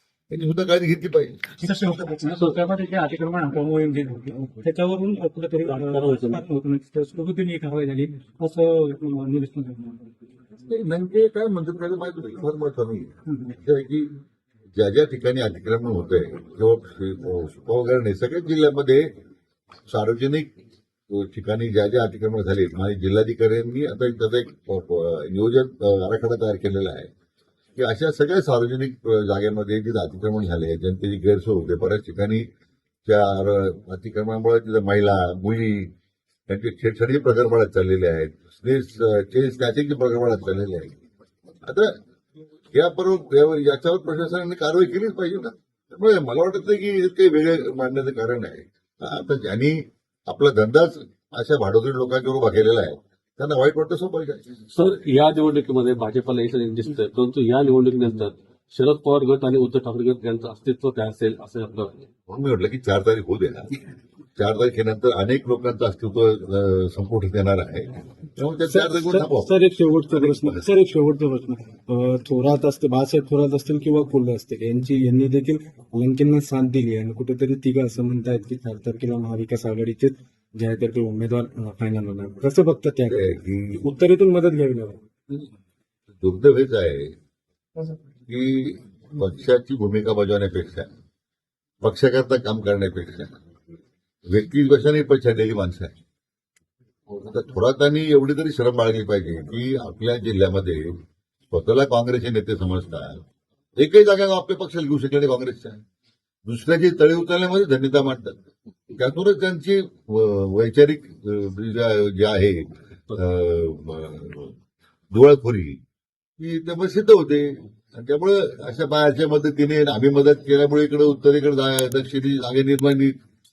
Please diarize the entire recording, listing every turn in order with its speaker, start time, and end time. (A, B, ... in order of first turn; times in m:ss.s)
0:00.3-0:01.6 A
0:01.6-0:10.1 B
0:05.7-0:06.4 C
0:10.7-0:13.1 A
0:13.3-0:13.5 B
0:13.6-0:14.1 A
0:14.8-0:19.1 A
0:19.9-0:20.5 A
0:21.1-0:27.1 A
0:27.8-0:32.4 A
0:33.0-0:35.9 A
0:36.5-0:41.0 A
0:41.6-0:41.9 A
0:42.7-0:54.4 A
0:54.7-1:02.0 C
1:02.3-1:03.8 A
1:04.4-1:09.5 A
1:08.7-1:25.0 D
1:10.1-1:10.6 A
1:23.1-1:23.8 A
1:26.2-1:27.1 A
1:28.3-1:30.9 A
1:31.8-1:33.4 A
1:34.3-1:35.9 A
1:37.2-1:40.9 A
1:41.5-1:43.2 A
1:43.8-1:45.8 A
1:46.4-1:48.3 A
1:49.0-1:54.5 A
1:55.1-1:55.8 A
1:56.4-2:03.1 A